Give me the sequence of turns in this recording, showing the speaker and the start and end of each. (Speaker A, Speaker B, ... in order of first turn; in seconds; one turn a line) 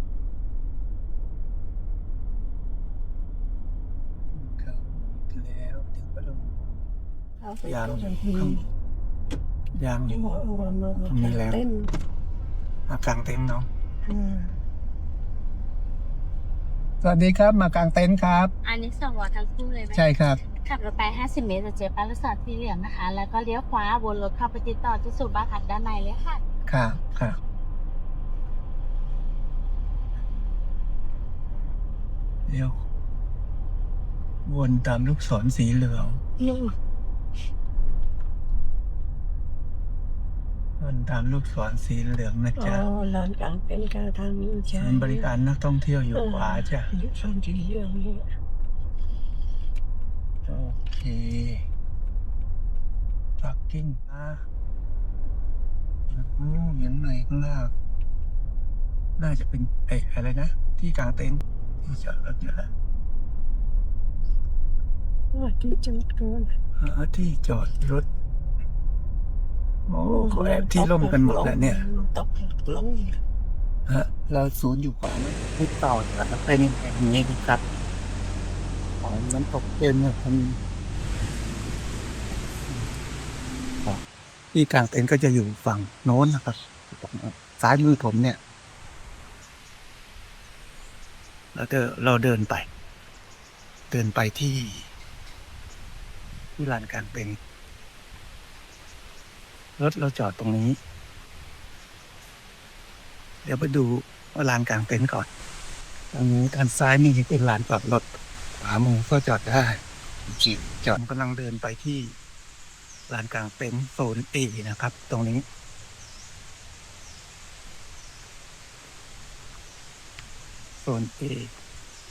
Speaker A: 4.3-6.8
Speaker B: 7.4-8.6
Speaker A: 7.7-8.6
Speaker A: 9.8-10.3
Speaker B: 10.1-11.9
Speaker A: 11.0-11.6
Speaker A: 12.9-13.7
Speaker B: 14.1-14.6
Speaker A: 17.0-18.5
Speaker C: 18.6-26.4
Speaker A: 19.9-20.4
Speaker A: 26.7-27.4
Speaker A: 32.5-32.8
Speaker A: 34.5-36.2
Speaker B: 36.4-36.7
Speaker A: 40.8-42.8
Speaker B: 42.6-45.2
Speaker A: 44.8-46.9
Speaker B: 46.1-48.2
Speaker A: 50.5-51.7
Speaker A: 53.4-54.4
Speaker A: 56.1-57.7
Speaker A: 59.2-62.7
Speaker B: 65.3-66.5
Speaker A: 66.8-68.0
Speaker A: 69.9-71.8
Speaker B: 70.1-73.1
Speaker A: 73.9-77.6
Speaker A: 79.0-80.6
Speaker A: 84.5-88.4
Speaker A: 91.5-92.7
Speaker A: 93.9-94.9
Speaker A: 96.6-97.4
Speaker A: 99.8-100.8
Speaker A: 103.4-105.3
Speaker A: 106.1-108.1
Speaker A: 108.6-112.1
Speaker A: 113.1-115.4
Speaker A: 120.8-121.5